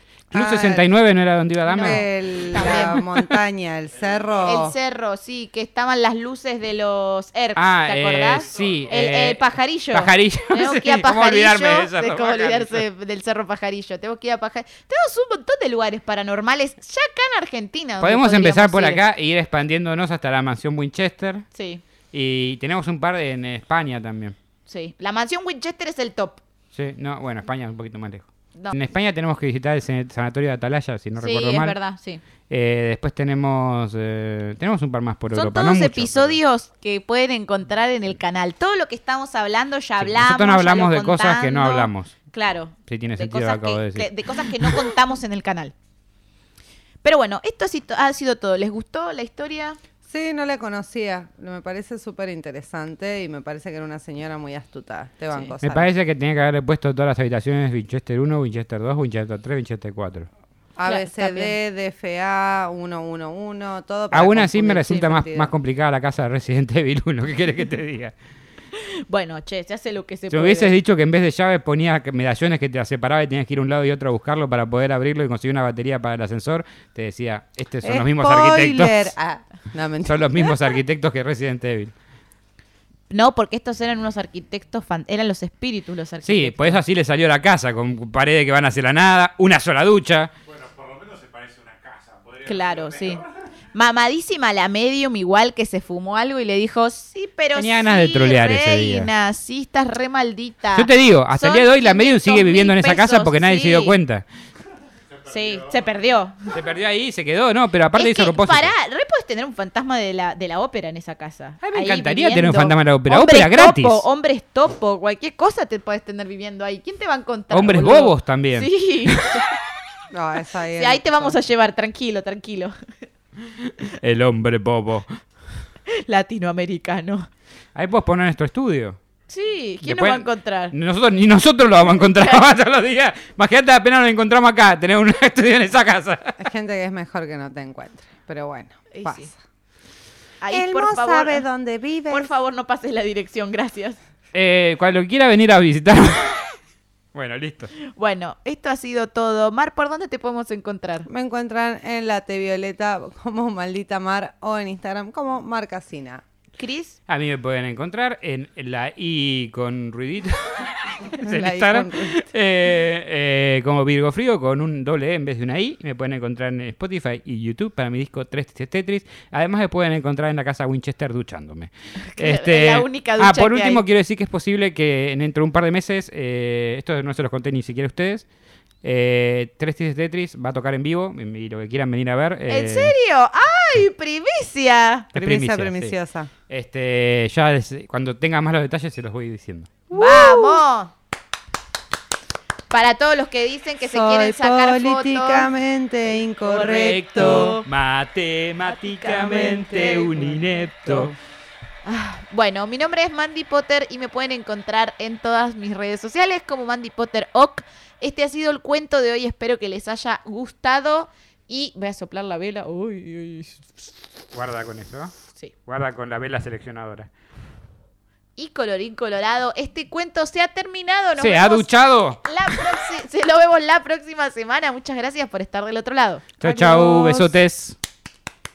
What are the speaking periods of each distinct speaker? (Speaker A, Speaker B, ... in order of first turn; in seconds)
Speaker A: 0.3-3.0, 7.6-12.8, 18.0-21.4, 22.1-24.4, 26.7-31.8, 32.5-36.4, 40.0-42.1, 42.9-44.1, 55.6-60.3, 64.1-68.1, 70.3-79.1, 80.1-81.9, 86.2-90.3, 97.5-99.1, 100.7-104.2, 106.5-108.7, 111.6-114.0, 117.5-119.4, 123.6-125.1, 127.8-129.0, 129.8-136.4, 144.3-146.5, 147.1-147.7, 157.1-178.3, 178.8-182.9, 185.1-186.0, 186.5-189.7, 196.7-201.2, 214.3-215.1, 215.7-217.1, 221.2-222.2, 226.4-227.8
Speaker B: 0.3-0.9, 1.8-4.7, 50.1-55.9, 60.8-65.5, 77.8-80.2, 120.1-121.4, 136.4-139.4, 140.5-142.3, 151.1-156.2, 161.2-162.1, 185.1-186.3, 189.9-190.6, 193.8-197.6
Speaker C: 1.7-3.0, 4.5-19.0, 21.5-21.8, 24.7-26.4, 31.2-32.2, 35.3-45.7, 47.0-49.8, 60.9-61.5, 68.7-70.7, 83.1-86.8, 92.5-104.0, 105.3-106.5, 107.9-119.5, 120.8-122.8, 125.9-127.3, 129.3-130.7, 132.0-132.4, 138.9-139.3, 140.4-141.4, 142.1-144.0, 147.9-151.1, 156.6-157.0, 172.0-173.8, 182.5-185.1, 189.9-190.9, 192.7-195.5, 196.4-197.6, 199.0-200.2, 201.8-213.6, 218.4-221.7, 222.2-227.3
Speaker D: 90.5-92.5